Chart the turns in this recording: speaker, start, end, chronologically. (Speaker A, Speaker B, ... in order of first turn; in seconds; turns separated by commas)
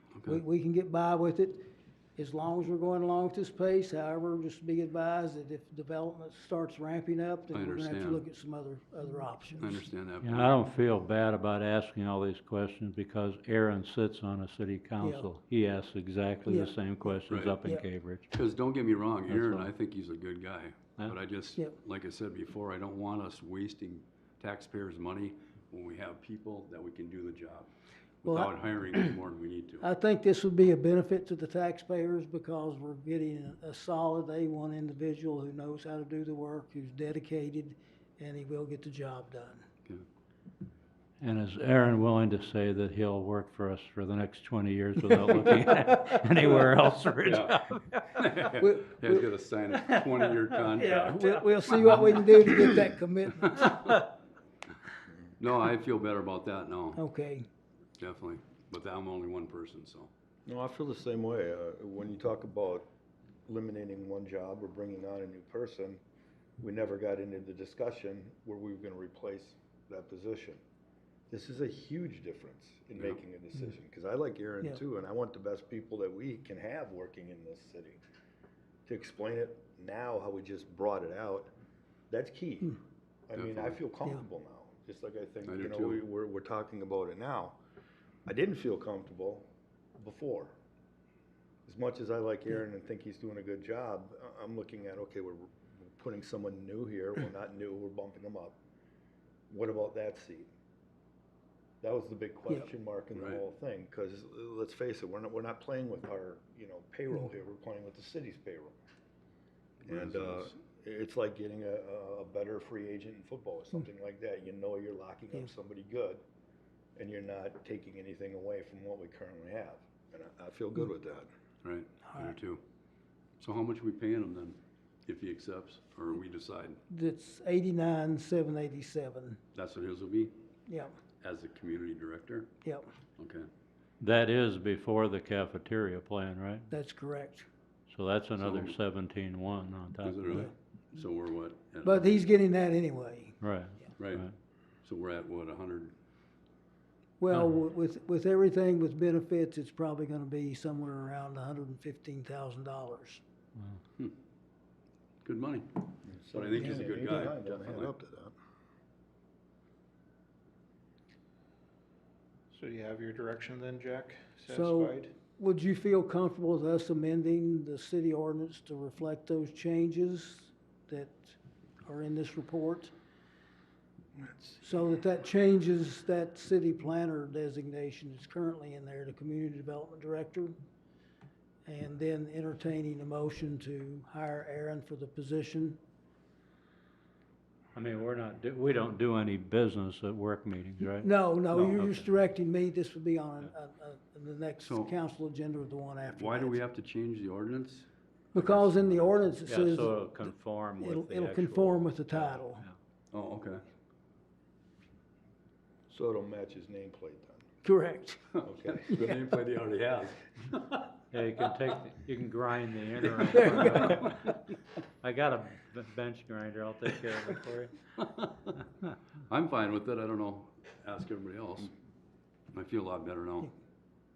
Speaker A: 0.1-0.4, Speaker B: 0.3-9.8, Speaker A: 7.5-8.2, Speaker A: 9.6-10.6, Speaker C: 10.2-18.3, Speaker B: 15.0-15.3, Speaker A: 17.3-17.6, Speaker A: 18.3-27.7, Speaker C: 19.3-19.7, Speaker A: 28.2-29.9, Speaker B: 28.2-28.5, Speaker B: 29.8-39.7, Speaker C: 41.2-48.0, Speaker A: 47.2-51.4, Speaker B: 48.6-48.9, Speaker B: 50.8-54.0, Speaker A: 55.4-57.0, Speaker B: 57.0-57.5, Speaker A: 58.0-60.1, Speaker D: 60.5-62.9, Speaker D: 63.5-66.0, Speaker D: 66.6-70.6, Speaker D: 71.3-78.0, Speaker D: 78.9-81.5, Speaker D: 82.1-87.6, Speaker A: 83.3-83.8, Speaker A: 85.5-86.0, Speaker D: 88.3-90.5, Speaker D: 91.7-98.6, Speaker D: 99.5-100.5, Speaker D: 101.8-108.8, Speaker A: 103.2-103.4, Speaker A: 109.8-110.5, Speaker D: 109.9-116.2, Speaker D: 117.0-121.3, Speaker A: 121.6-122.6, Speaker B: 122.1-122.3, Speaker A: 123.4-126.8, Speaker B: 126.9-129.4, Speaker A: 129.5-130.3, Speaker B: 130.7-130.9, Speaker A: 131.2-132.5, Speaker A: 133.2-133.5, Speaker C: 134.0-136.7, Speaker B: 136.7-137.5, Speaker C: 137.9-140.5, Speaker A: 138.4-138.8, Speaker A: 140.0-142.3, Speaker B: 141.8-143.4, Speaker C: 143.4-144.3, Speaker A: 144.0-144.2, Speaker A: 144.8-145.9, Speaker B: 147.2-153.2, Speaker A: 155.2-157.9, Speaker D: 156.1-158.3, Speaker E: 162.5-165.1, Speaker B: 164.5-172.9, Speaker E: 174.3-174.6, Speaker B: 174.6-180.5, Speaker B: 181.7-185.8, Speaker C: 187.8-192.1, Speaker B: 191.0-196.6, Speaker A: 194.6-194.9, Speaker A: 196.1-199.1, Speaker B: 198.3-200.0, Speaker C: 199.5-202.7, Speaker B: 200.8-202.7, Speaker A: 203.1-203.6, Speaker D: 205.9-207.4, Speaker B: 207.6-208.2, Speaker A: 208.3-210.9, Speaker D: 208.4-208.9, Speaker C: 211.1-214.4, Speaker B: 213.3-214.1, Speaker C: 215.0-217.7, Speaker A: 218.0-218.5, Speaker A: 219.3-221.7, Speaker A: 222.5-223.5